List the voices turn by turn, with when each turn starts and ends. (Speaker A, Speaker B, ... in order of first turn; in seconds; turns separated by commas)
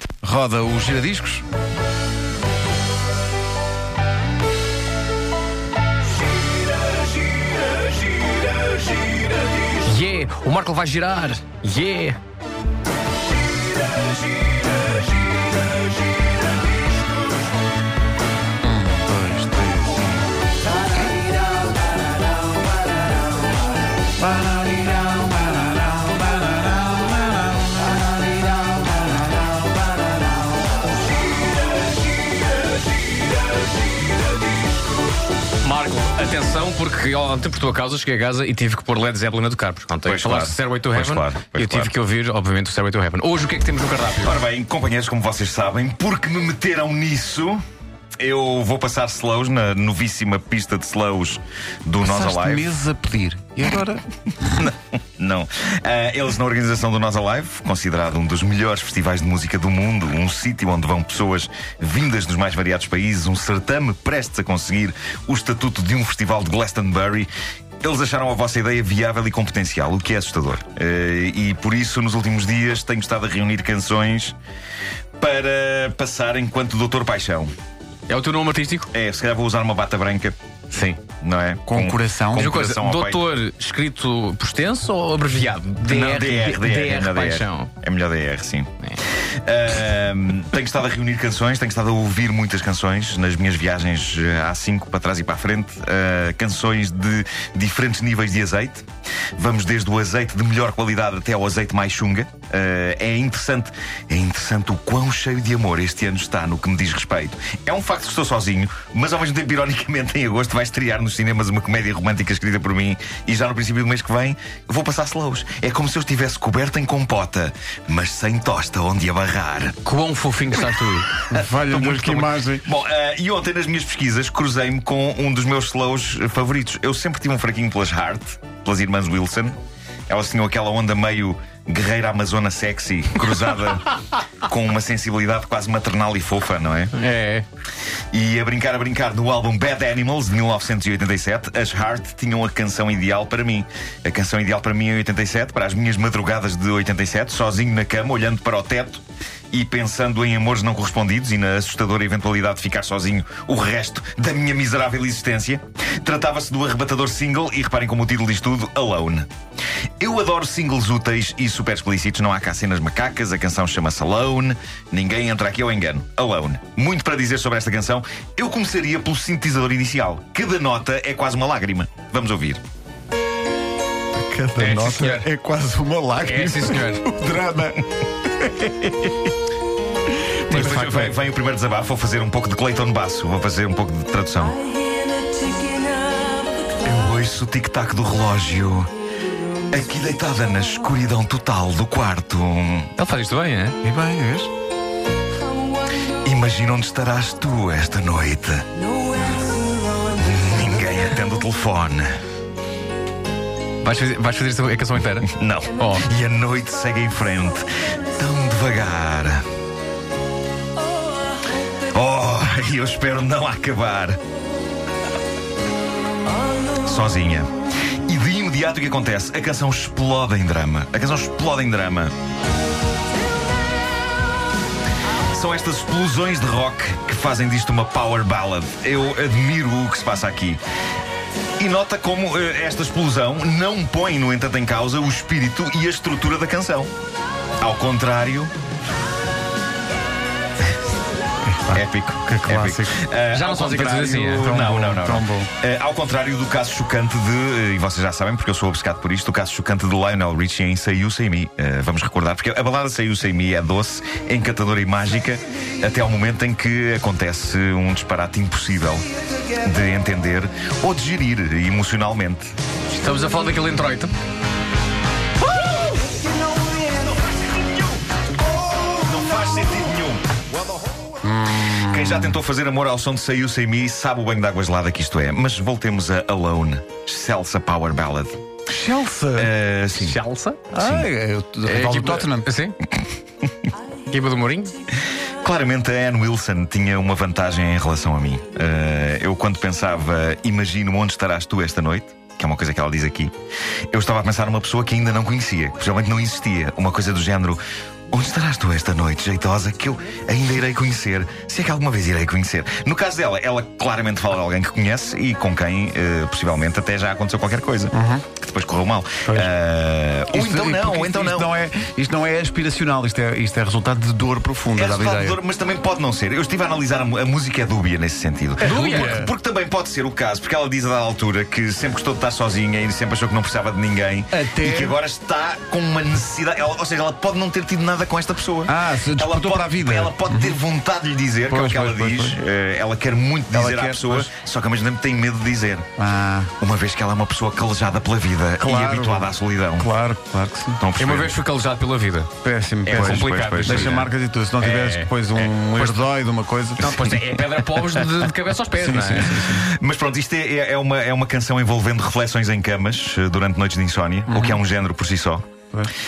Speaker A: 0.2-1.5, Speaker B: 9.8-12.2, Speaker A: 18.6-20.1, Speaker A: 24.2-28.9, Speaker B: 35.6-44.4, Speaker C: 40.0-41.9, Speaker C: 44.2-47.6, Speaker C: 48.2-52.7, Speaker A: 52.0-54.6, Speaker C: 54.6-67.3, Speaker C: 67.8-74.3, Speaker C: 75.2-77.5, Speaker B: 78.1-78.9, Speaker C: 78.9-80.4, Speaker B: 80.7-81.0, Speaker C: 81.1-83.2, Speaker A: 81.7-82.5, Speaker B: 82.3-87.7, Speaker C: 85.8-119.8, Speaker B: 119.8-121.2, Speaker A: 121.3-122.6, Speaker C: 121.3-129.6, Speaker C: 130.1-136.9, Speaker B: 136.9-137.4, Speaker C: 138.1-159.3, Speaker C: 160.0-172.6, Speaker A: 174.2-179.1, Speaker B: 174.6-175.3, Speaker B: 176.2-177.0, Speaker A: 180.3-181.1, Speaker C: 180.5-184.6, Speaker B: 180.5-181.1, Speaker C: 186.8-188.9, Speaker C: 189.7-192.9, Speaker B: 193.0-193.8, Speaker A: 193.8-194.5, Speaker C: 196.2-198.7, Speaker C: 200.1-202.1, Speaker B: 203.8-206.1, Speaker C: 205.3-209.4, Speaker C: 211.9-214.2, Speaker C: 216.8-217.5, Speaker C: 218.1-222.1, Speaker C: 225.3-230.6, Speaker C: 231.6-236.9, Speaker C: 237.6-238.5, Speaker A: 241.5-243.0, Speaker C: 241.7-262.5, Speaker B: 243.3-244.5, Speaker A: 243.7-245.5, Speaker B: 262.9-264.1, Speaker C: 265.6-268.0, Speaker C: 268.7-270.2, Speaker A: 271.2-272.4, Speaker C: 271.7-278.4, Speaker A: 278.7-279.5, Speaker C: 279.3-280.2, Speaker B: 280.0-280.7, Speaker A: 280.7-282.5, Speaker C: 280.8-281.1, Speaker B: 281.6-282.8, Speaker B: 284.1-284.7, Speaker C: 285.4-293.3, Speaker C: 293.9-311.5, Speaker A: 307.9-308.2, Speaker A: 310.3-315.4, Speaker C: 314.8-335.9, Speaker A: 318.6-319.3, Speaker B: 318.6-319.1, Speaker A: 324.3-324.9, Speaker A: 328.7-330.6, Speaker A: 331.5-332.4, Speaker A: 333.5-334.3, Speaker A: 336.0-336.5, Speaker C: 336.6-339.9, Speaker A: 338.6-340.8, Speaker C: 340.8-341.4, Speaker B: 341.0-342.3, Speaker A: 342.4-347.1, Speaker B: 342.9-344.1, Speaker C: 342.9-344.1, Speaker B: 344.6-346.0, Speaker B: 346.8-349.4, Speaker C: 347.7-348.1, Speaker A: 348.8-349.7, Speaker C: 349.1-355.5, Speaker A: 354.3-354.6